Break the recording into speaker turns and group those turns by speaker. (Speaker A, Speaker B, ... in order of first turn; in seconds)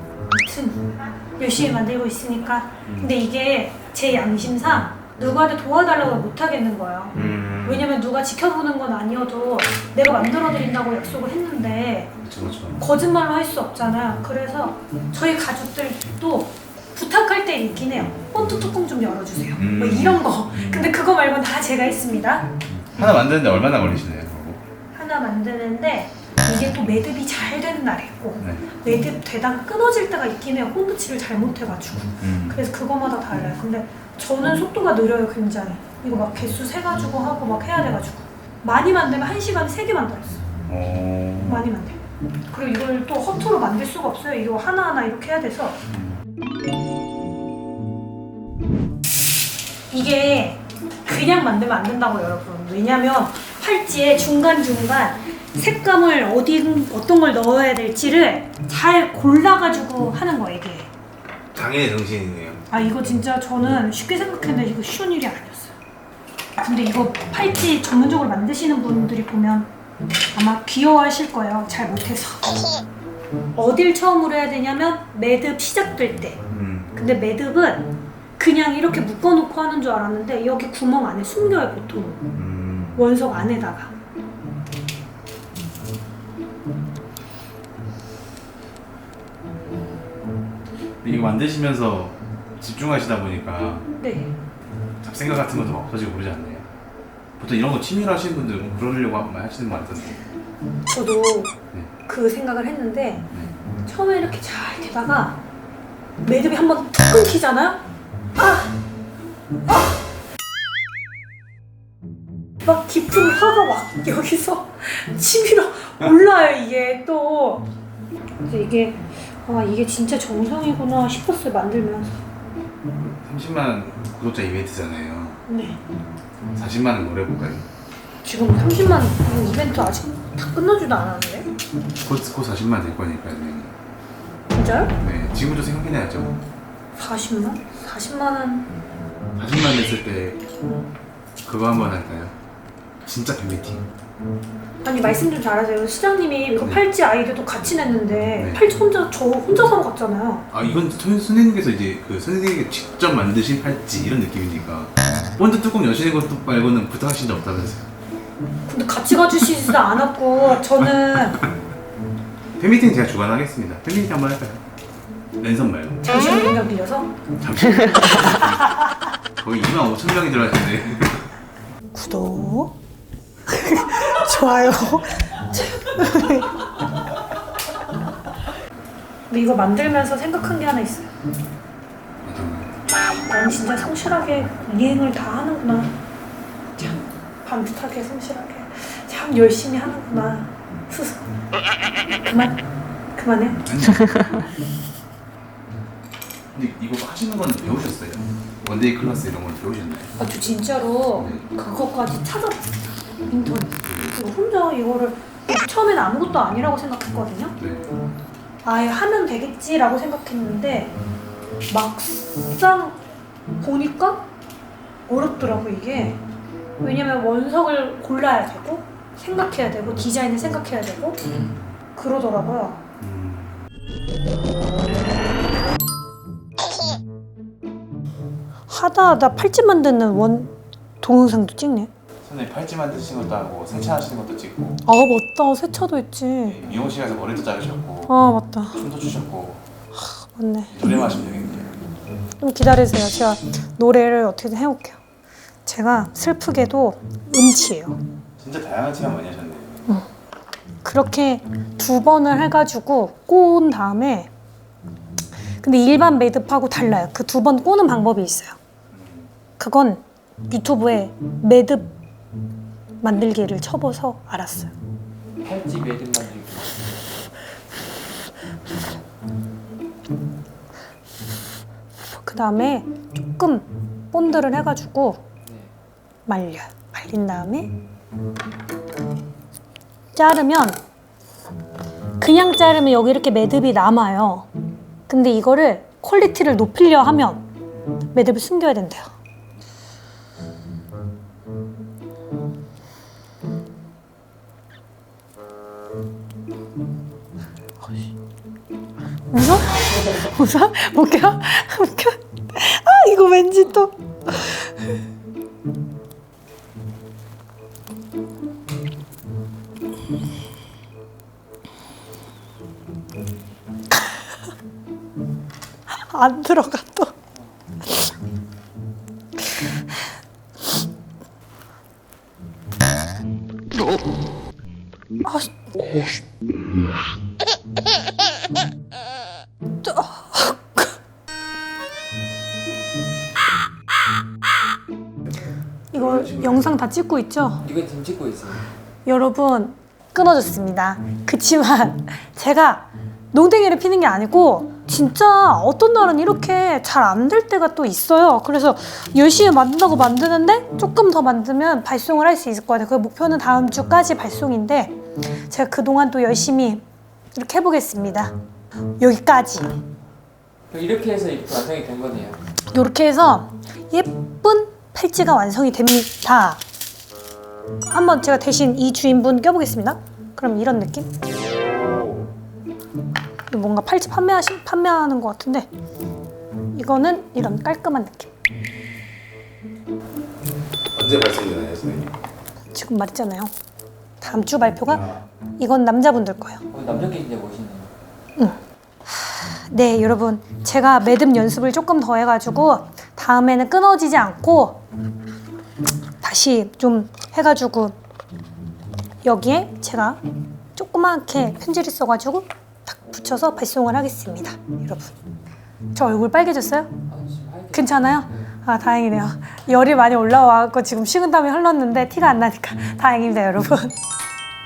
Speaker A: 0.4-12.1, 12.8-22.6, 24.9-40.4, 41.4-45.8, 49.9-60.9, 62.7-65.7, 66.6-69.7, 70.3-72.7, 73.5-76.4, 76.9-82.3, 83.0-83.9, 94.0-94.3, 100.8-101.5, 102.0-103.3, 103.8-105.4, 106.2-107.8, 108.4-108.7, 109.7-109.9, 112.6-117.7, 118.4-122.2, 125.5-125.8, 128.2-131.5, 134.5-134.9, 136.9-138.7, 144.8-150.5, 158.7-161.4, 166.0-167.2, 171.9-172.7, 173.4-176.6, 179.3-181.1, 183.3-185.9, 186.8-191.2, 192.2-192.6, 193.1-193.7, 200.2-207.6, 208.6-210.9, 211.7-213.0, 213.6-214.3, 215.1-216.2, 216.8-221.2, 221.9-222.8, 228.7-231.9, 234.8-236.6, 238.1-238.8, 239.9-240.7, 242.4-245.0, 245.6-248.0, 250.8-254.3, 255.6-258.6, 259.6-261.9, 263.0-264.7, 272.1-275.2, 276.3-277.7, 280.1-280.8, 282.2-284.5, 285.1-287.4, 288.1-289.1, 299.3-304.7, 315.9-317.1, 325.2-326.0, 329.8-330.9, 335.9-337.6, 339.0-358.3, 359.0-359.8, 362.7-366.6, 367.8-371.1, 373.5-375.7, 376.7-378.3, 382.7-383.5, 384.2-386.6, 388.4-394.8, 396.2-397.9, 399.2-400.2, 400.7-405.1, 405.9-406.9, 407.7-413.9
Speaker B: 2.9-3.1, 7.1-7.9, 12.2-12.8, 19.6-20.9, 22.7-24.6, 28.4-28.6, 32.2-32.6, 40.7-41.6, 45.9-46.2, 61.5-62.6, 76.5-76.9, 82.3-83.0, 91.0-93.9, 95.0-96.7, 97.4-100.2, 123.0-125.4, 126.5-127.7, 132.0-133.7, 135.0-136.4, 139.4-140.4, 141.4-142.3, 143.0-143.9, 150.5-157.8, 162.6-164.6, 165.4-166.0, 167.4-168.7, 169.4-171.3, 182.2-182.8, 193.6-194.4, 196.5-200.2, 201.2-201.4, 203.8-204.2, 207.6-207.9, 223.0-223.7, 232.2-234.8, 236.4-238.1, 238.7-239.6, 240.7-241.8, 248.4-249.9, 258.9-259.3, 371.4-372.3, 380.9-382.2, 384.9-385.2
Speaker C: 265.4-266.9, 275.4-275.7, 337.6-338.6, 360.7-362.4, 386.7-387.9, 407.1-408.3